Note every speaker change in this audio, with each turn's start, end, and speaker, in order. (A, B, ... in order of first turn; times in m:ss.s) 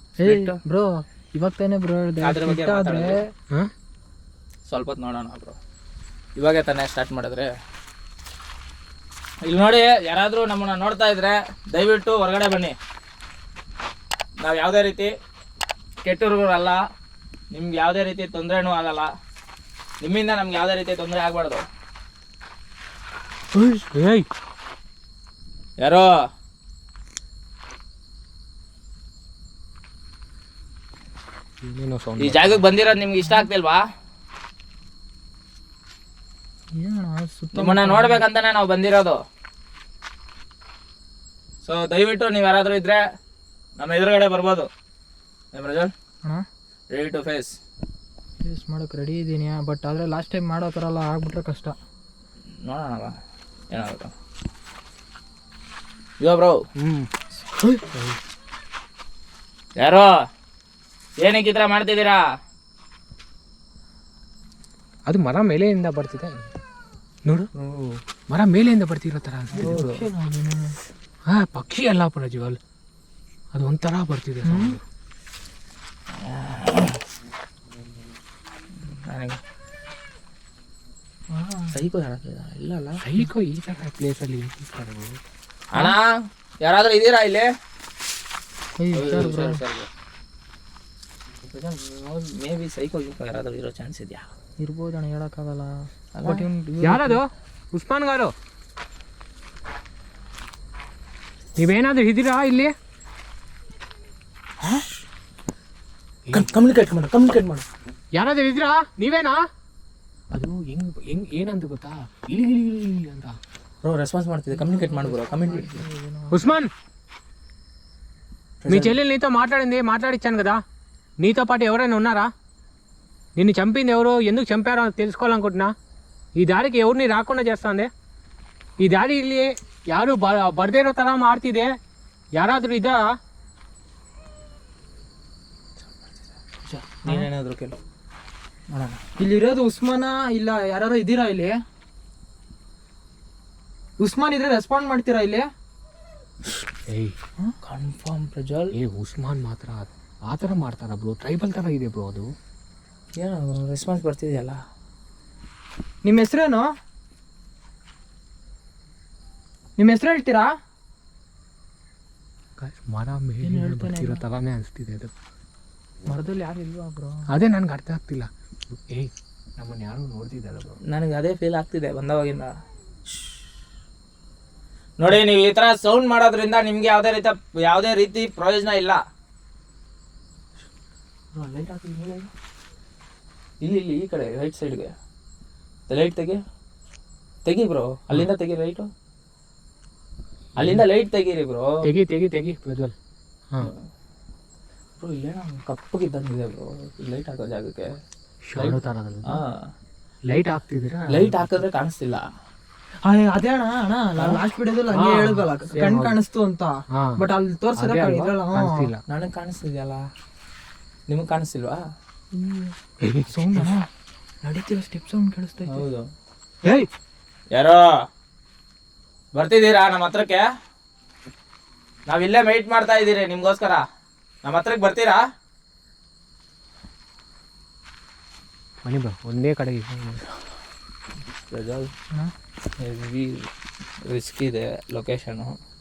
0:00.2-0:03.3 A
0:00.2-0:00.6 B
0:02.2-0:03.2 B
0:04.7-0:05.6 B
0:06.4-0:07.5 B
0:09.4-0:12.8 B
0:14.4-0:15.1 B
0:16.0-0:16.8 B
0:17.5-0:19.1 B
0:20.0-0:21.7 B
0:23.9-0:24.3 C
0:25.8-0:26.1 B
0:31.6-0:32.8 C
0:32.2-0:33.8 B
0:36.8-0:38.2 A
0:37.6-0:39.2 B
0:41.6-0:43.1 B
0:43.8-0:44.7 B
0:45.5-0:45.9 B
0:46.9-0:47.6 B
0:48.4-0:51.8 A
0:52.6-0:53.2 B
0:53.7-0:54.1 B
0:56.2-0:56.6 B
0:56.8-0:57.1 C
0:57.6-0:57.8 A
0:57.9-0:58.2 C
0:59.8-1:00.1 B
1:01.2-1:02.2 B
1:05.1-1:06.5 C
1:07.6-1:08.0 B
1:08.3-1:10.0 C
1:09.6-1:10.0 B
1:09.6-1:10.8 A
1:11.3-1:12.6 C
1:13.5-1:14.8 C
1:14.4-1:14.8 A
1:16.1-1:17.0 B
1:18.8-1:19.4 B
1:21.3-1:21.7 A
1:21.7-1:23.0 B
1:23.0-1:25.2 C
1:25.7-1:27.5 B
1:28.8-1:29.6 A
1:28.9-1:29.9 B
1:31.4-1:34.3 B
1:34.6-1:37.2 A
1:36.2-1:36.5 B
1:36.8-1:38.3 C
1:41.6-1:42.8 C
1:46.3-1:47.7 B
1:48.2-1:49.4 C
1:50.3-1:53.4 C
1:53.8-1:55.9 B
1:54.5-1:56.5 A
1:56.3-1:56.7 C
1:58.6-1:59.0 B
1:58.7-2:00.6 C
2:01.2-2:02.3 C
2:03.4-2:05.7 C
2:06.4-2:07.9 C
2:08.8-2:11.8 C
2:12.4-2:13.1 C
2:15.8-2:16.3 B
2:16.7-2:17.3 A
2:17.0-2:17.8 B
2:18.7-2:19.0 B
2:19.2-2:21.6 A
2:24.0-2:25.5 A
2:26.9-2:27.2 C
2:27.6-2:28.8 B
2:28.7-2:32.3 C
2:33.2-2:34.6 B
2:36.0-2:36.7 A
2:39.8-2:40.5 A
2:42.6-2:45.1 C
2:43.4-2:44.2 A
2:46.1-2:47.3 A
2:47.3-2:50.8 C
2:50.9-2:52.5 B
2:53.1-2:53.4 B
2:55.0-2:59.0 B
3:01.4-3:02.3 B
3:03.6-3:04.9 B
3:05.9-3:06.4 B
3:07.4-3:08.9 B
3:10.6-3:11.7 B
3:11.8-3:13.0 C
3:15.0-3:18.0 B
3:18.4-3:19.4 C
3:18.6-3:19.7 B
3:20.3-3:21.5 C
3:21.1-3:22.2 B
3:23.0-3:28.9 A
3:24.9-3:26.2 C
3:26.9-3:27.2 C
3:27.8-3:29.0 C
3:29.1-3:30.1 B
3:31.1-3:31.8 B
3:32.3-3:32.8 A
3:33.0-3:33.7 C
3:33.3-3:33.9 A
3:34.4-3:35.9 A
3:35.7-3:36.1 B
3:37.5-3:37.9 B
3:39.4-3:40.5 B
3:42.1-3:43.8 B
3:44.4-3:45.2 B
3:48.8-3:50.2 C
3:51.5-3:51.9 B
3:52.8-3:53.5 B
3:54.0-3:55.6 B